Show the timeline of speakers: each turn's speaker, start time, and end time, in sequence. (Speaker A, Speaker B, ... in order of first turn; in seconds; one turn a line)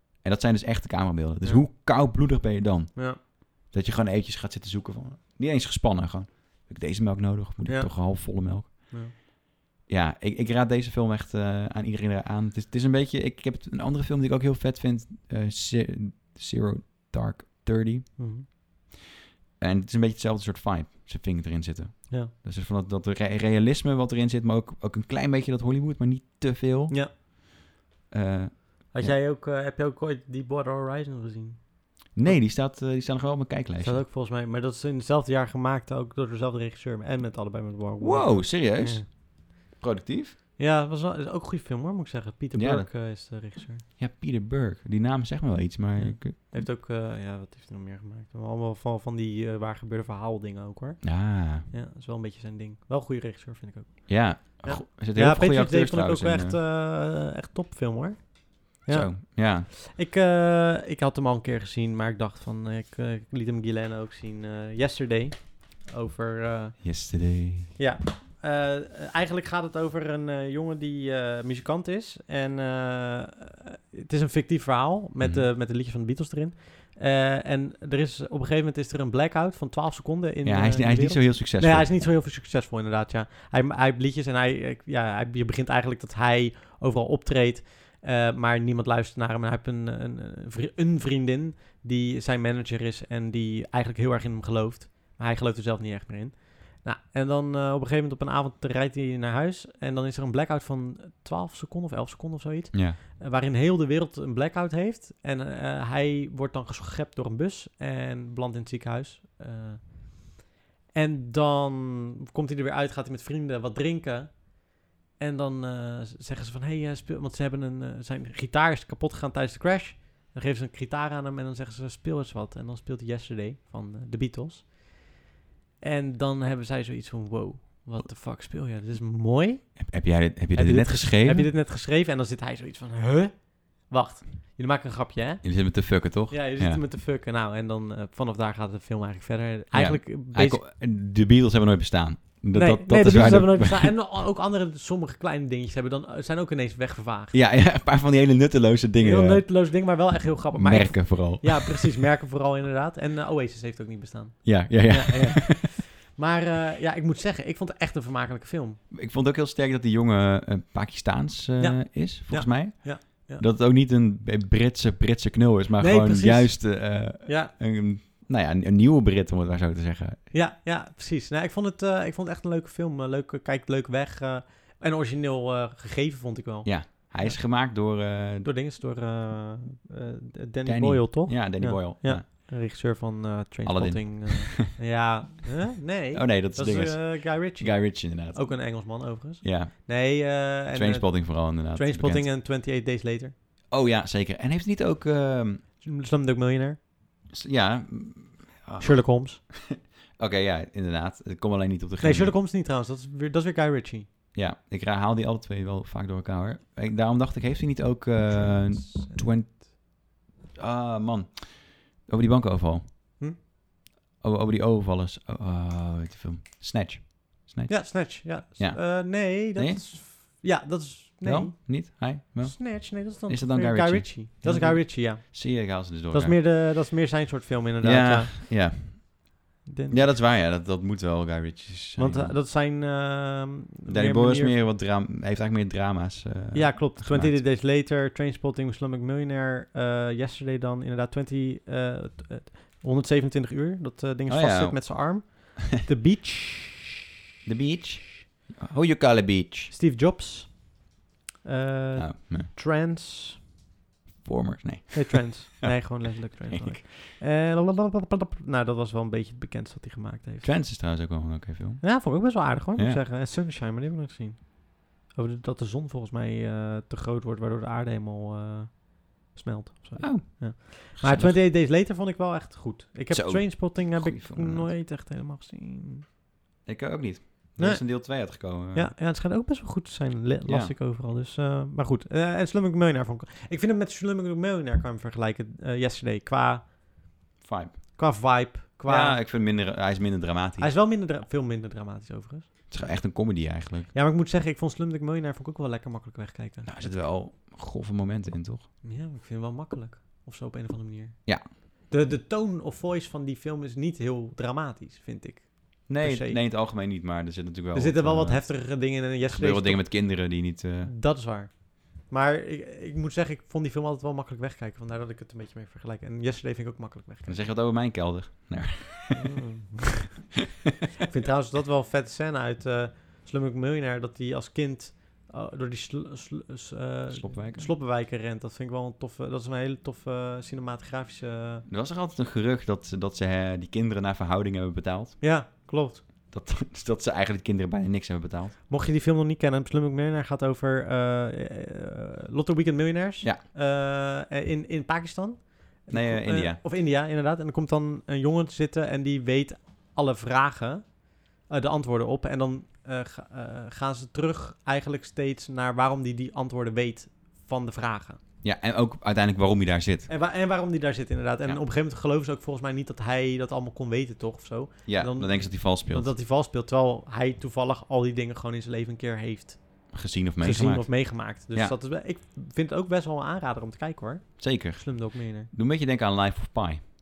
Speaker A: 0.2-9.2
Speaker B: 7.6-9.1
Speaker A: 9.9-18.2
Speaker B: 18.2-18.4
Speaker A: 19.6-27.2
Speaker A: 28.1-29.1
Speaker B: 28.9-32.4
Speaker A: 32.1-34.0
Speaker B: 33.8-39.0
Speaker A: 38.0-40.4
Speaker B: 40.6-43.9
Speaker A: 42.5-42.9
Speaker A: 44.0-46.7
Speaker B: 46.0-66.8
Speaker A: 51.0-51.7
Speaker A: 54.1-56.6
Speaker A: 58.9-59.7
Speaker A: 66.8-67.7
Speaker B: 67.8-110.3
Speaker A: 75.2-75.5
Speaker A: 80.4-81.9
Speaker A: 102.7-103.0
Speaker B: 110.9-125.1
Speaker B: 125.8-129.9
Speaker A: 129.7-131.5
Speaker B: 130.5-135.8
Speaker A: 135.4-136.8
Speaker B: 136.3-140.6
Speaker A: 139.7-143.9
Speaker B: 142.5-147.4
Speaker A: 147.3-149.5
Speaker B: 149.0-158.8
Speaker A: 150.5-152.0
Speaker A: 154.4-155.6
Speaker A: 158.9-170.2
Speaker B: 161.6-163.4
Speaker B: 165.8-167.5
Speaker B: 170.3-177.4
Speaker A: 176.6-178.5
Speaker B: 178.4-193.3
Speaker A: 180.6-182.2
Speaker A: 183.6-184.7
Speaker A: 186.1-192.3
Speaker A: 193.7-195.6
Speaker B: 195.8-196.8
Speaker A: 197.3-202.3
Speaker B: 198.8-199.4
Speaker B: 202.0-204.1
Speaker A: 204.3-212.8
Speaker B: 208.9-209.2
Speaker A: 214.2-219.8
Speaker B: 217.7-228.4
Speaker A: 221.2-226.4
Speaker A: 227.8-229.3
Speaker B: 229.6-230.2
Speaker A: 229.9-232.4
Speaker B: 232.0-234.6
Speaker A: 233.9-237.4
Speaker B: 236.5-246.9
Speaker A: 244.3-245.3
Speaker A: 247.4-249.7
Speaker B: 249.7-250.8
Speaker B: 251.4-253.4
Speaker A: 251.9-252.5
Speaker A: 254.2-256.8
Speaker B: 254.9-260.5
Speaker A: 260.4-263.0
Speaker B: 261.8-276.0
Speaker A: 270.0-271.4
Speaker A: 273.1-274.7
Speaker A: 276.6-278.9
Speaker B: 277.6-286.8
Speaker A: 280.4-280.7
Speaker A: 287.4-287.8
Speaker B: 287.9-289.2
Speaker A: 288.9-290.7
Speaker B: 290.6-292.5
Speaker A: 292.7-293.9
Speaker B: 293.9-297.0
Speaker A: 296.6-298.7
Speaker B: 298.8-306.4
Speaker A: 305.9-310.9
Speaker B: 307.7-317.4
Speaker A: 317.2-319.2
Speaker B: 319.1-320.3
Speaker B: 321.0-331.6
Speaker A: 327.1-327.7
Speaker A: 331.7-335.2
Speaker B: 335.2-336.0
Speaker A: 336.3-338.6
Speaker B: 338.7-358.2
Speaker A: 345.9-346.6
Speaker A: 358.4-360.1
Speaker B: 360.1-375.5
Speaker A: 364.9-366.1
Speaker A: 369.9-371.8
Speaker A: 374.4-376.8